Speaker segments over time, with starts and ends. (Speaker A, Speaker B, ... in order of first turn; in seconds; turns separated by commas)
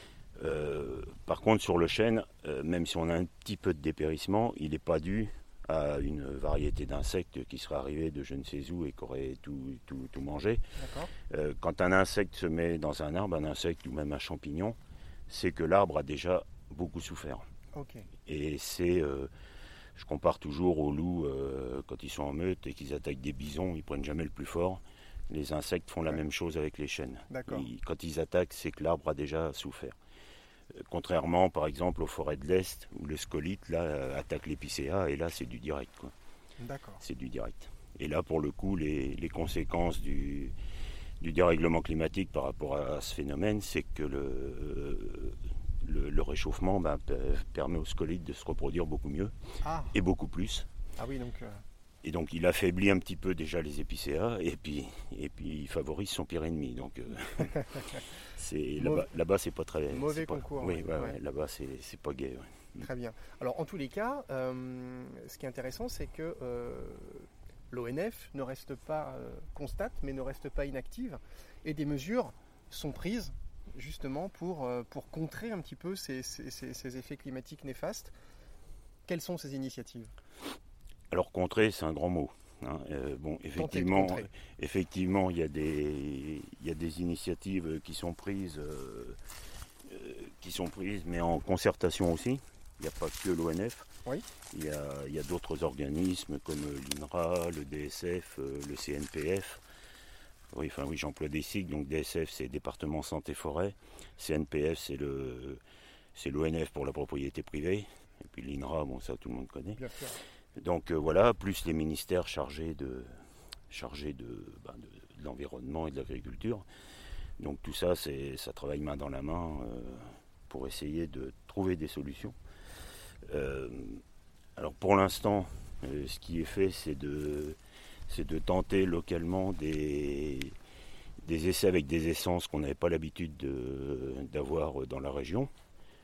Speaker A: 0.4-10.6, Speaker B: 10.8-11.1, Speaker A: 11.3-14.8, Speaker A: 15.3-17.4, Speaker B: 17.7-18.1, Speaker A: 18.2-19.3, Speaker A: 19.9-29.9, Speaker B: 27.3-27.7, Speaker A: 30.8-36.1, Speaker B: 36.6-37.0, Speaker A: 37.0-40.5, Speaker A: 41.2-49.3, Speaker B: 49.6-49.9, Speaker A: 49.9-50.7, Speaker B: 51.0-51.6, Speaker A: 52.0-62.9, Speaker B: 58.8-59.1, Speaker B: 59.9-61.2, Speaker B: 62.8-78.1, Speaker B: 79.0-80.1, Speaker A: 81.1-89.2, Speaker B: 83.6-84.3, Speaker A: 89.9-93.9, Speaker A: 94.5-99.6, Speaker A: 100.5-105.6, Speaker A: 106.2-109.8, Speaker B: 109.8-110.2, Speaker A: 110.6-113.1, Speaker A: 113.7-116.6, Speaker A: 117.4-122.3, Speaker A: 123.3-124.0, Speaker A: 124.6-127.6, Speaker A: 128.1-130.6, Speaker A: 131.2-135.5